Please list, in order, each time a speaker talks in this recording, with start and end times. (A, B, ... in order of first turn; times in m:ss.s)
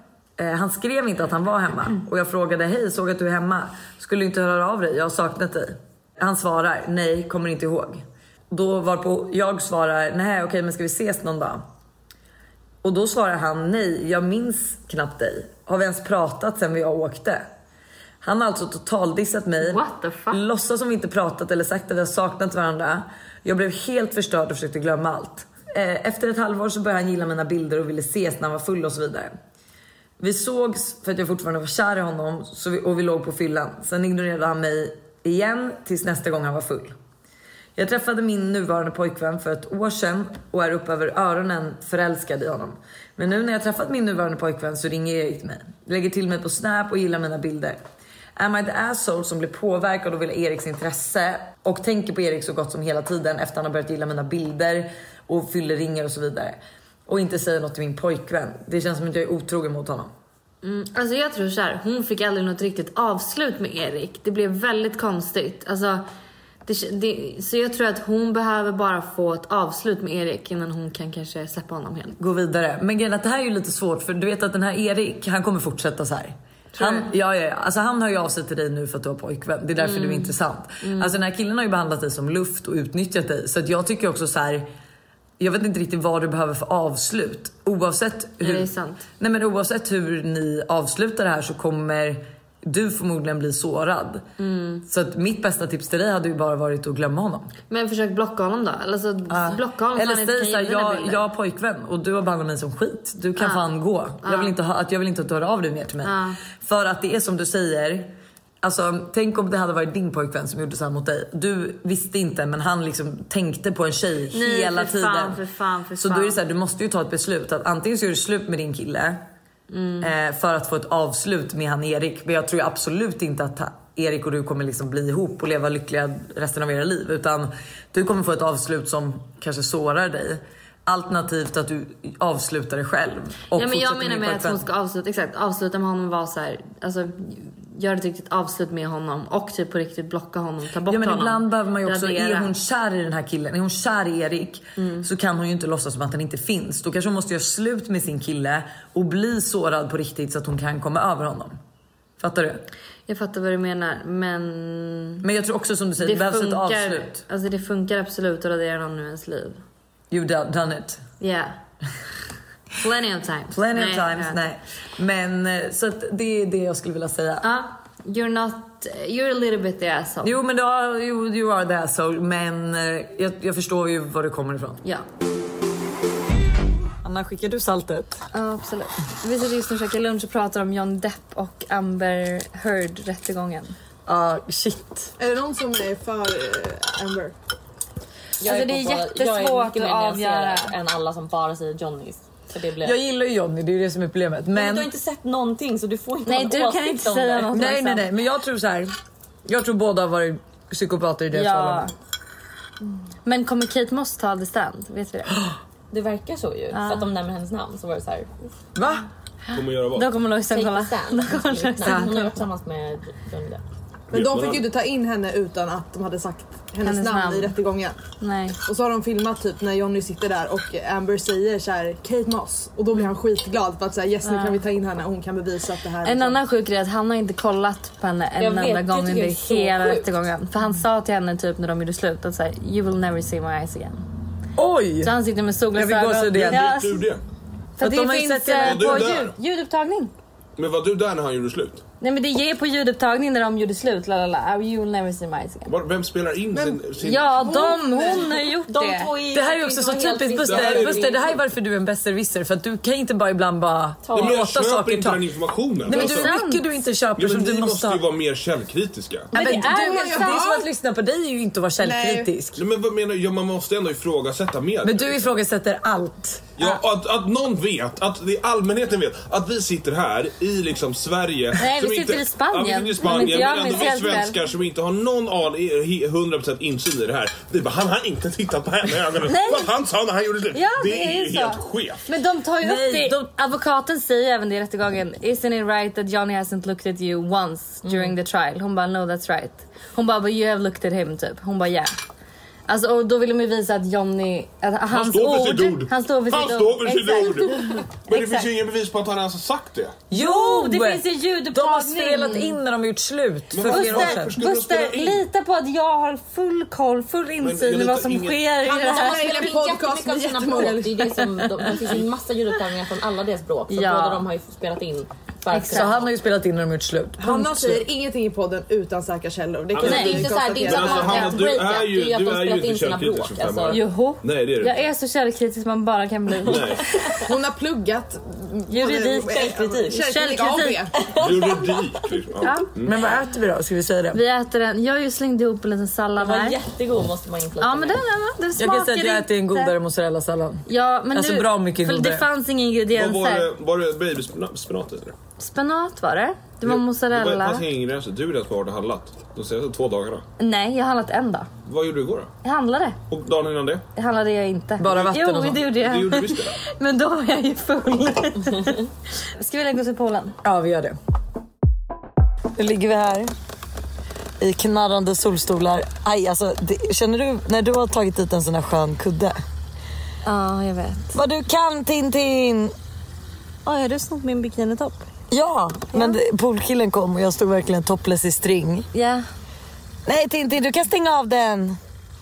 0:00.4-0:11.6 A
0:12.8-0:17.5 A
0:18.2-0:29.3 A
0:19.6-0:20.4 B
0:30.2-0:37.0 A
0:37.8-0:47.8 A
0:48.4-1:00.1 A
1:00.6-1:06.1 B
1:06.6-1:12.2 B
1:12.2-1:24.7 A
1:16.7-1:17.1 B
1:19.8-1:21.2 B
1:25.4-1:34.2 A
1:28.4-1:29.1 B
1:34.4-1:34.8 B
1:34.8-1:37.5 A
1:37.7-1:41.2 B
1:39.3-1:55.4 A
1:43.4-1:43.6 B
1:44.2-1:44.6 B
1:46.0-1:46.4 B
1:54.3-1:56.4 B
1:56.0-1:59.2 A
1:59.7-2:00.1 B
2:00.0-2:14.6 A
2:13.5-2:22.5 B
2:20.9-2:31.6 A
2:24.8-2:25.1 B
2:32.2-2:32.6 A
2:33.1-2:35.2 B
2:35.2-2:37.2 A
2:36.0-2:39.6 B
2:40.1-2:41.0 A
2:41.2-2:41.6 B
2:42.8-2:44.4 B
2:43.5-2:47.5 A
2:47.4-2:50.4 B
2:50.2-2:54.8 A
2:57.0-2:58.2 A
2:58.3-3:03.8 B
3:04.1-3:05.1 A
3:05.2-3:07.4 C
3:08.4-3:13.0 D
3:08.4-3:10.7 B
3:12.8-3:14.9 A
3:14.5-3:17.5 D
3:16.3-3:18.1 B
3:17.5-3:18.9 A
3:19.5-3:21.9 A
3:21.3-3:21.9 B
3:23.2-3:25.5 B
3:25.9-3:28.4 D
3:26.7-3:27.1 B
3:28.8-3:29.0 A
3:29.5-3:32.2 B
3:29.5-3:30.2 E
3:30.5-3:33.6 D
3:34.1-3:34.7 E
3:34.1-3:38.0 C
3:36.8-3:37.6 B
3:38.2-3:38.6 B
3:38.7-3:46.4 C
3:44.2-3:44.6 B
3:46.0-3:54.0 B
3:48.4-3:50.2 D
3:54.6-3:55.1 A
3:55.0-3:57.1 B
3:55.7-3:56.6 A
3:56.3-3:57.2 E
3:57.8-4:00.1 B
3:57.8-3:59.1 A
3:58.6-3:59.3 E
4:00.6-4:01.8 E
4:02.0-4:05.7 B
4:05.7-4:07.4 E
4:06.5-4:08.3 C
4:07.0-4:09.1 B
4:08.7-4:11.4 D
4:09.3-4:15.2 A
4:10.4-4:11.3 E
4:14.1-4:14.4 D
4:14.1-4:16.3 E
4:15.9-4:18.0 A
4:15.9-4:16.6 B
4:17.2-4:19.3 E
4:19.3-4:20.5 B
4:19.3-4:22.6 A
4:19.4-4:20.6 C
4:21.8-4:22.3 C
4:22.6-4:25.2 E
4:24.8-4:26.5 A
4:26.6-4:42.0 E
4:31.6-4:34.4 B
4:39.3-4:39.7 B
4:40.5-4:51.9 B
4:42.6-4:43.3 A
4:52.7-4:58.5 B
4:54.9-5:00.0 E
5:00.1-5:04.3 A
5:00.1-5:02.6 B
5:03.5-5:05.2 E
5:03.6-5:09.6 B
5:07.4-5:09.0 E
5:08.7-5:11.3 C
5:09.0-5:16.0 D
5:13.7-5:14.2 B
5:15.5-5:15.9 B
5:15.6-5:17.8 A
5:17.2-5:21.4 C
5:19.7-5:24.8 E
5:19.8-5:23.8 D
5:19.9-5:20.2 B
5:23.7-5:27.1 B
5:26.4-5:26.9 E
5:27.2-5:31.2 C
5:28.7-5:31.5 B
5:31.1-5:33.1 E
5:32.4-5:32.7 B
5:32.8-5:34.2 A
5:34.1-5:36.6 B
5:36.2-5:38.0 D
5:37.6-5:39.8 B
5:38.6-5:42.3 A
5:40.7-5:43.5 B
5:42.9-5:45.1 E
5:45.4-5:47.7 B
5:46.6-5:50.2 E
5:50.4-5:51.5 B
5:51.7-5:52.3 E
5:52.4-5:53.0 B
5:53.1-5:53.8 E
5:54.0-6:00.4 B
5:54.8-5:55.6 A
5:54.9-5:56.6 E
6:00.4-6:01.0 A
6:02.6-6:03.3 A
6:04.4-6:09.4 A
6:10.2-6:11.2 B
6:11.1-6:12.7 A
6:13.6-6:15.0 B
6:15.3-6:18.9 A
6:15.9-6:16.2 B
6:18.9-6:19.2 B
6:20.1-6:21.8 A